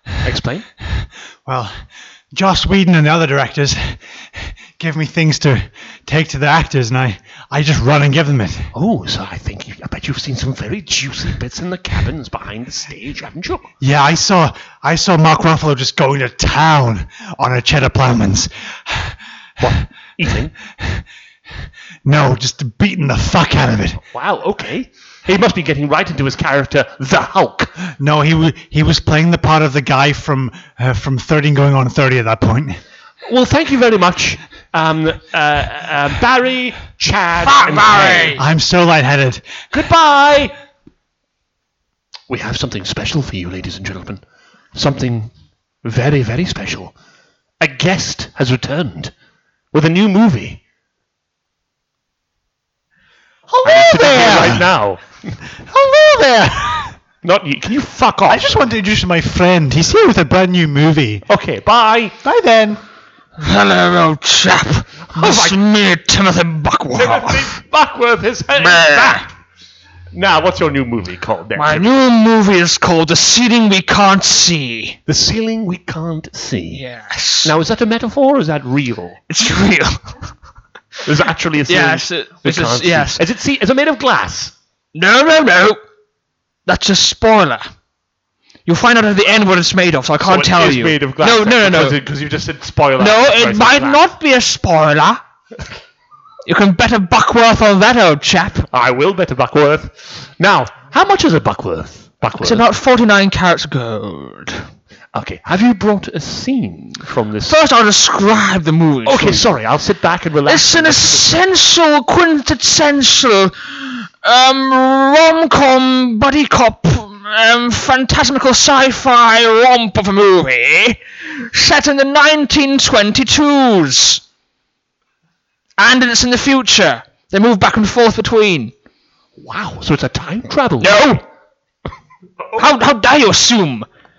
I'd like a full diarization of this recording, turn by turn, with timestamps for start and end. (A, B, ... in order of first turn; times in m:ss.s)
0:00.2-0:00.7 A
0:00.9-0:08.7 B
0:08.7-0:13.7 A
0:13.8-0:19.2 B
0:19.6-0:20.6 A
0:20.8-0:21.0 B
0:22.0-0:24.0 B
0:24.0-0:27.8 A
0:28.0-0:32.8 B
0:33.2-0:38.4 A
0:37.4-0:38.4 C
0:38.4-0:39.5 B
0:39.7-0:40.6 A
0:42.3-0:44.2 A
0:44.8-0:45.3 A
0:45.8-0:47.0 A
0:47.6-0:49.1 A
0:49.7-0:50.6 A
0:53.5-0:54.7 B
0:53.6-0:55.4 A
0:55.6-0:57.0 B
0:57.2-0:58.7 A
0:58.3-1:01.2 B
1:01.3-1:02.2 A
1:02.2-1:02.8 B
1:03.4-1:07.6 C
1:05.1-1:05.6 A
1:06.9-1:09.3 A
1:08.6-1:09.3 C
1:10.1-1:11.9 A
1:11.6-1:15.0 C
1:15.1-1:16.8 A
1:16.8-1:17.5 C
1:17.4-1:19.2 A
1:19.3-1:20.2 C
1:21.0-1:24.5 A
1:21.7-1:23.2 C
1:24.9-1:25.8 C
1:26.7-1:27.7 C
1:28.7-1:32.0 C
1:30.2-1:34.0 A
1:33.0-1:35.2 C
1:36.4-1:38.7 C
1:38.7-1:42.7 A
1:42.4-1:44.7 C
1:45.1-1:47.6 A
1:47.5-1:49.5 C
1:49.0-1:51.4 A
1:50.5-2:04.2 C
2:05.8-2:08.7 C
2:09.4-2:11.1 A
2:10.8-2:11.2 C
2:12.6-2:13.9 C